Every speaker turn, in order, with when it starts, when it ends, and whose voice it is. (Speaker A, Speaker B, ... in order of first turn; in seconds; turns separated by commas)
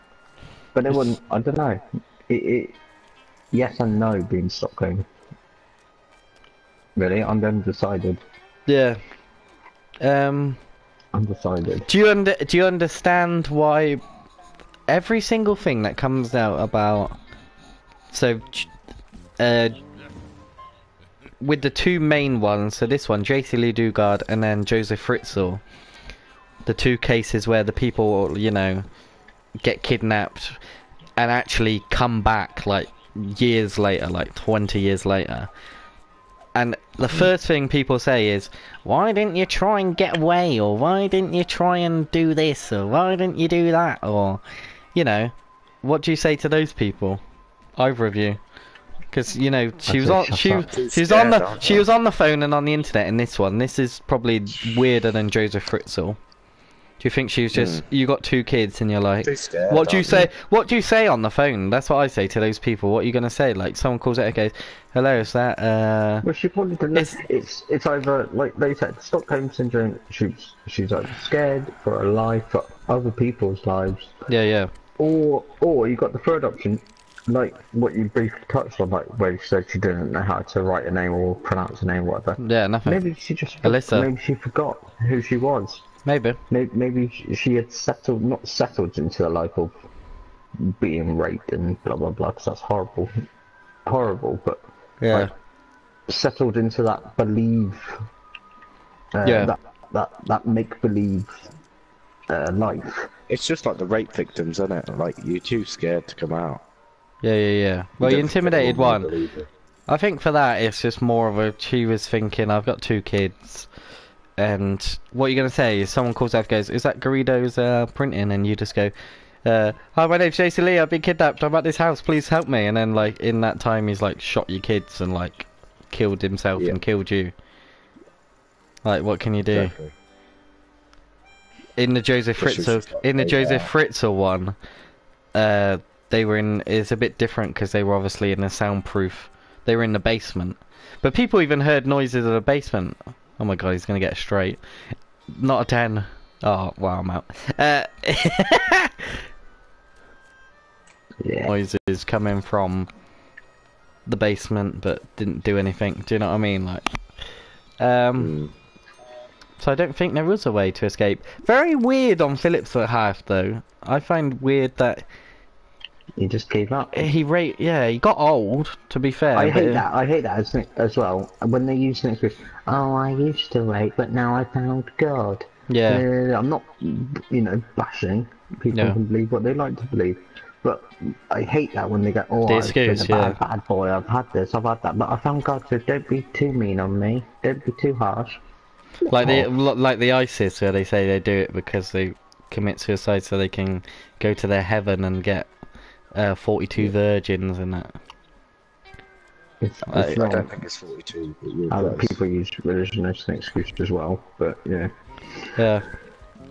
Speaker A: 0.7-2.8, Speaker A: 3.5-5.1, Speaker A: 7.0-8.2, Speaker B: 8.7-9.0, Speaker B: 10.0-10.6, Speaker A: 11.1-11.9, Speaker B: 11.9-14.0, Speaker B: 14.9-17.2, Speaker B: 18.1-18.7, Speaker B: 19.4-19.8, Speaker B: 21.4-25.6, Speaker B: 26.6-28.9, Speaker B: 29.6-30.6, Speaker B: 31.2-35.5, Speaker B: 36.5-44.4, Speaker B: 44.9-47.2, Speaker B: 47.8-48.4, Speaker B: 49.1-56.2, Speaker A: 49.9-50.6, Speaker C: 50.6-51.8, Speaker B: 57.0-66.2, Speaker C: 57.5-57.8, Speaker C: 59.2-60.3, Speaker A: 66.2-74.2, Speaker B: 74.3-74.7, Speaker A: 75.0-85.8, Speaker B: 82.4-83.0, Speaker B: 83.6-84.1, Speaker B: 86.0-86.4, Speaker A: 86.5-89.7, Speaker A: 90.6-93.1, Speaker A: 93.8-95.3, Speaker B: 95.0-95.3, Speaker A: 96.1-98.0, Speaker A: 99.1-101.5, Speaker B: 99.2-99.5, Speaker A: 102.3-103.1, Speaker C: 103.3-106.6, Speaker B: 107.2-109.1, Speaker C: 108.0-109.5, Speaker B: 109.9-113.7, Speaker B: 114.4-118.9, Speaker B: 119.4-127.3, Speaker B: 128.8-129.7, Speaker C: 129.4-129.9, Speaker B: 131.8-134.6, Speaker C: 132.4-133.7, Speaker B: 135.3-144.6, Speaker B: 145.3-149.2, Speaker A: 151.2-151.5, Speaker B: 151.4-152.9, Speaker B: 154.1-156.8, Speaker B: 157.8-158.3, Speaker C: 158.2-158.5, Speaker B: 159.6-165.0, Speaker A: 166.2-167.1, Speaker B: 166.9-169.8, Speaker A: 169.3-188.4, Speaker B: 175.7-176.0, Speaker B: 178.7-179.0, Speaker B: 182.4-183.4, Speaker A: 189.1-189.5, Speaker B: 189.1-195.5, Speaker B: 196.1-197.9, Speaker A: 199.6-200.5, Speaker B: 199.9-200.2, Speaker C: 199.9-202.2, Speaker A: 201.7-204.9, Speaker B: 205.6-205.8